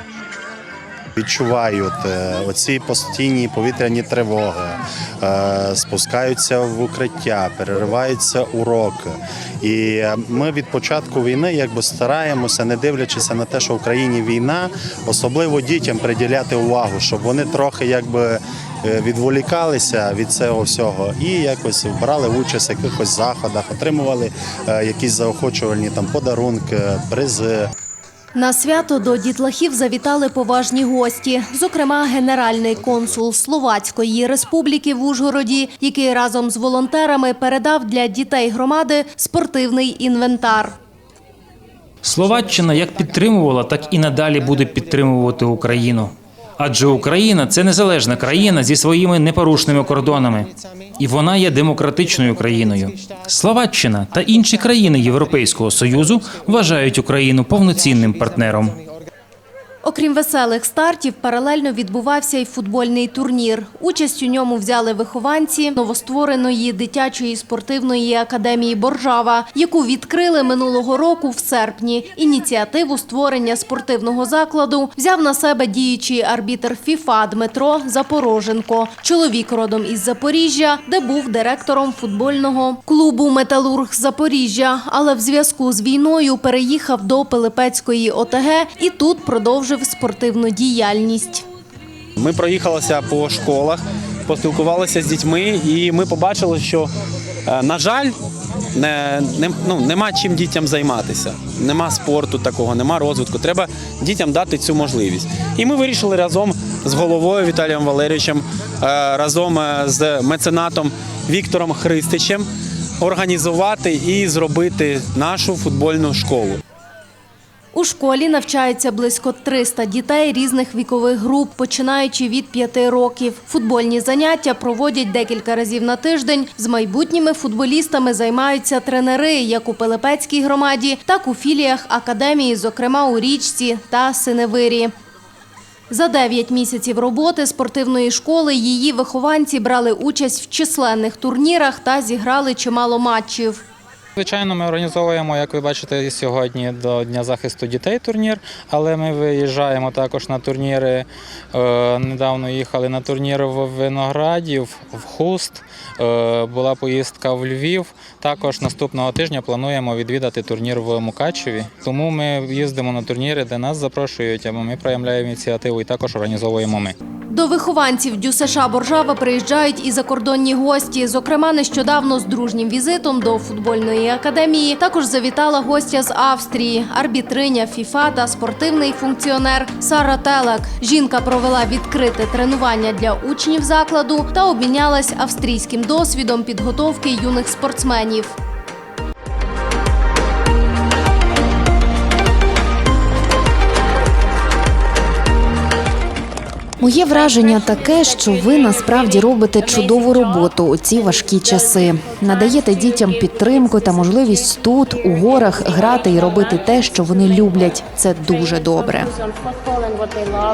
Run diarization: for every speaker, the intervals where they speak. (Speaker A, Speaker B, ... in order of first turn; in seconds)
Speaker A: 1.2-27.7
Speaker B: 28.3-40.7, 59.8-91.4, 117.7-134.9, 135.9-143.6, 167.3-188.3
Speaker C: 42.0-58.8
Speaker D: 92.2-96.9, 97.5-98.1, 98.7-112.5, 113.0-116.6
Speaker E: 144.2-166.9
Speaker F: 196.8-209.1